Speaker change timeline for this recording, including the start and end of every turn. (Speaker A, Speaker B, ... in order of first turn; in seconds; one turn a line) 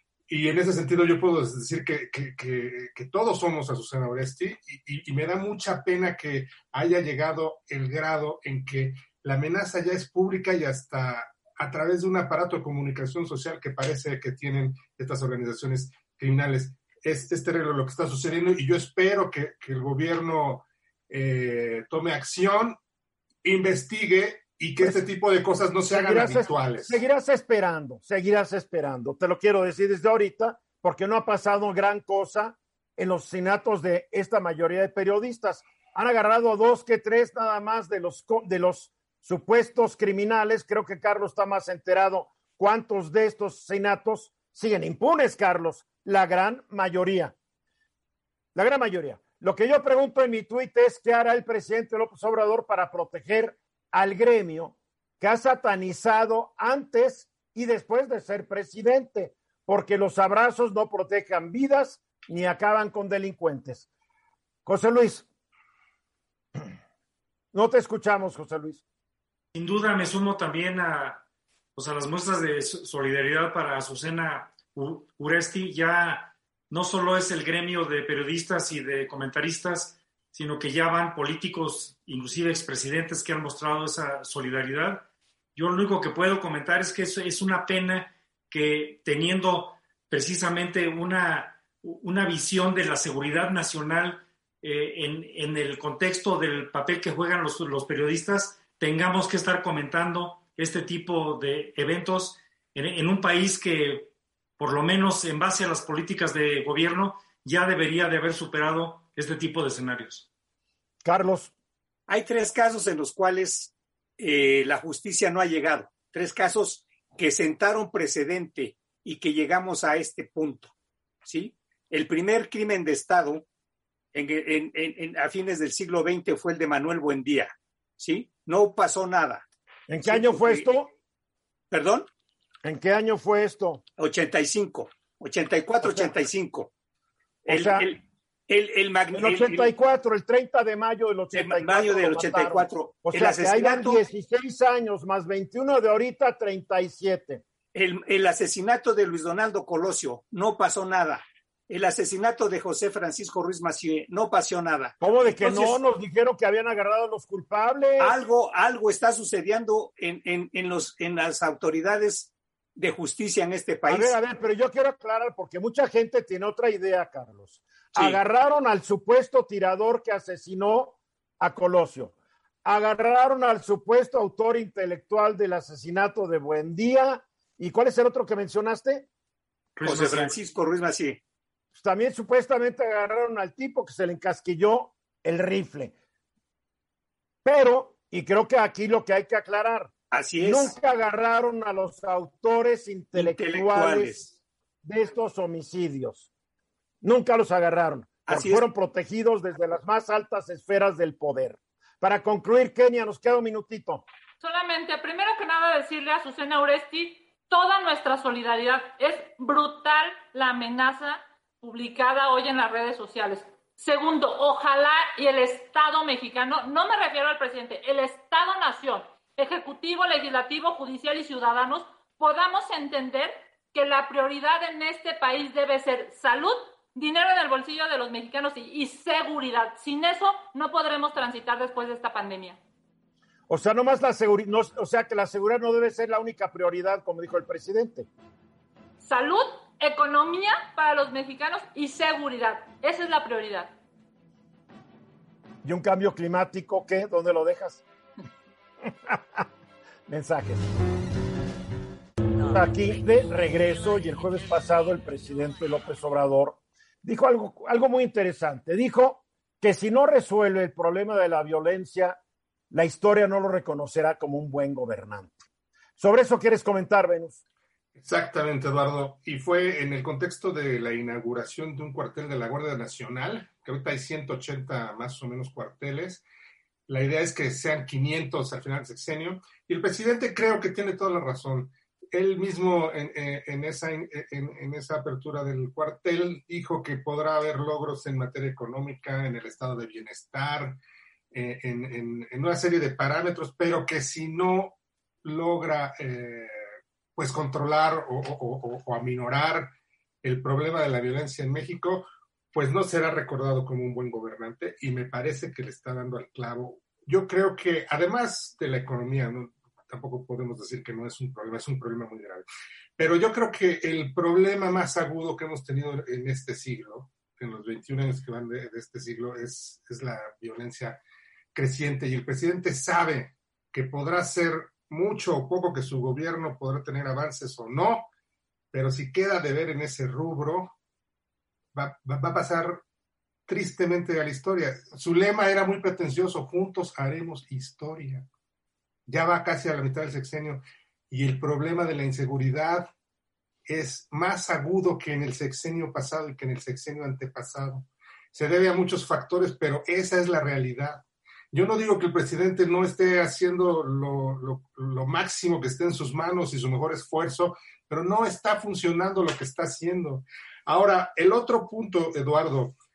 Speaker A: 0.3-22.8
Speaker A: 23.4-27.0
Speaker B: 25.9-47.3
Speaker B: 48.5-63.9
Speaker B: 64.7-65.3
Speaker B: 67.5-68.8
Speaker C: 69.5-71.2
Speaker C: 71.8-110.3
Speaker B: 111.0-111.5
Speaker D: 112.1-120.7
Speaker D: 121.2-123.5
Speaker D: 124.1-129.4
Speaker B: 129.9-130.9
Speaker D: 130.1-130.7
Speaker D: 131.7-132.1
Speaker B: 132.6-133.8
Speaker D: 134.0-136.7
Speaker B: 135.8-136.1
Speaker D: 137.4-139.7
Speaker B: 137.5-137.9
Speaker B: 139.1-147.4
Speaker D: 141.3-144.0
Speaker D: 147.7-155.8
Speaker B: 155.0-158.2
Speaker D: 158.0-164.1
Speaker B: 163.9-172.1
Speaker D: 167.9-168.2
Speaker B: 172.7-179.1
Speaker C: 179.8-180.3
Speaker D: 179.8-181.2
Speaker B: 181.8-185.9
Speaker B: 187.4-194.2
Speaker D: 190.1-190.7
Speaker D: 193.2-194.3
Speaker B: 194.8-196.3
Speaker B: 197.0-204.0
Speaker D: 198.3-198.6
Speaker E: 204.4-232.6
Speaker B: 233.5-238.1
Speaker E: 239.0-243.7
Speaker B: 245.6-247.8
Speaker B: 248.9-249.5
Speaker B: 250.1-250.7
Speaker B: 252.5-262.2
Speaker B: 262.7-265.4
Speaker B: 266.0-267.4
Speaker A: 268.0-276.2
Speaker A: 276.9-290.8
Speaker A: 291.3-296.6
Speaker A: 297.2-312.4
Speaker A: 313.0-321.0
Speaker A: 321.5-328.1
Speaker A: 328.7-330.7
Speaker A: 331.7-332.8
Speaker A: 333.5-338.3
Speaker A: 339.1-342.9
Speaker A: 343.7-362.8